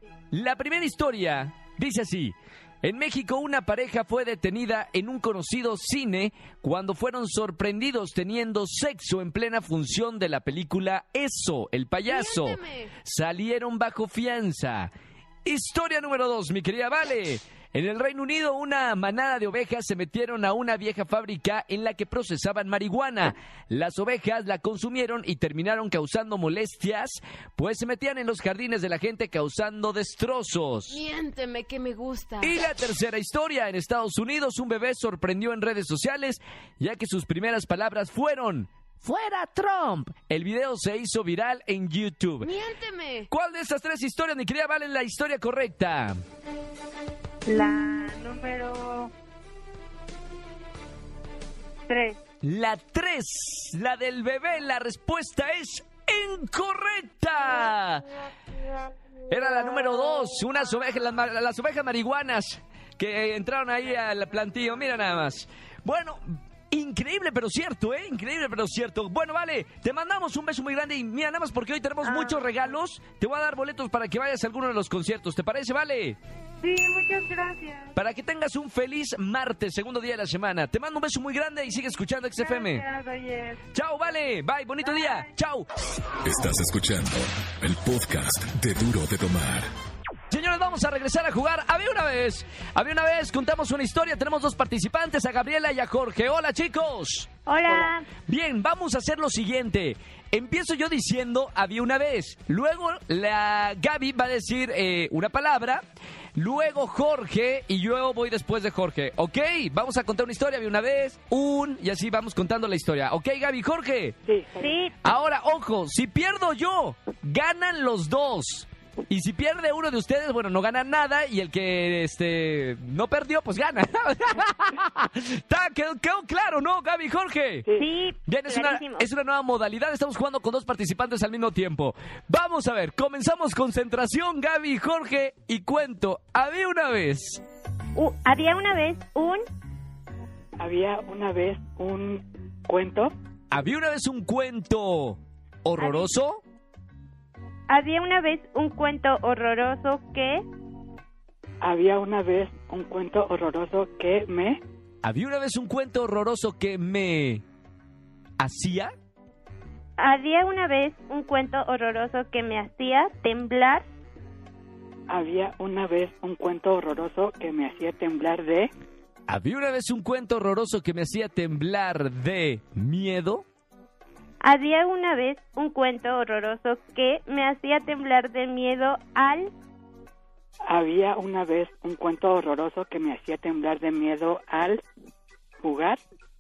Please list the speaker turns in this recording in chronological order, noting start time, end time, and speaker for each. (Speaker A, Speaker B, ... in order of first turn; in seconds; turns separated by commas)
Speaker A: 0.3-14.9, Speaker B: 12.0-12.9, Speaker A: 15.4-31.0, Speaker B: 30.9-32.6, Speaker A: 32.4-42.5, Speaker B: 42.4-43.3, Speaker A: 43.3-46.2, Speaker C: 47.5-49.1, Speaker C: 51.9-52.2, Speaker A: 52.4-58.1, Speaker A: 59.3-76.2, Speaker C: 72.0-72.7, Speaker C: 76.6-78.0, Speaker A: 77.9-82.8, Speaker C: 82.3-83.6, Speaker A: 83.7-85.7, Speaker C: 84.8-85.2, Speaker D: 86.2-89.7, Speaker A: 90.3-105.8, Speaker E: 97.5-98.0, Speaker A: 106.3-114.2, Speaker F: 114.2-114.8, Speaker E: 114.5-114.9, Speaker A: 115.0-127.7, Speaker E: 127.7-129.1, Speaker A: 128.3-137.4, Speaker E: 137.9-139.4, Speaker F: 140.6-143.1, Speaker A: 143.5-146.4, Speaker E: 147.7-150.4, Speaker F: 151.6-154.6, Speaker A: 155.0-157.4, Speaker A: 158.4-158.9, Speaker E: 160.0-163.9, Speaker F: 165.1-168.7, Speaker A: 169.3-173.4, Speaker E: 174.4-179.5, Speaker F: 180.7-184.8, Speaker F: 185.6-186.0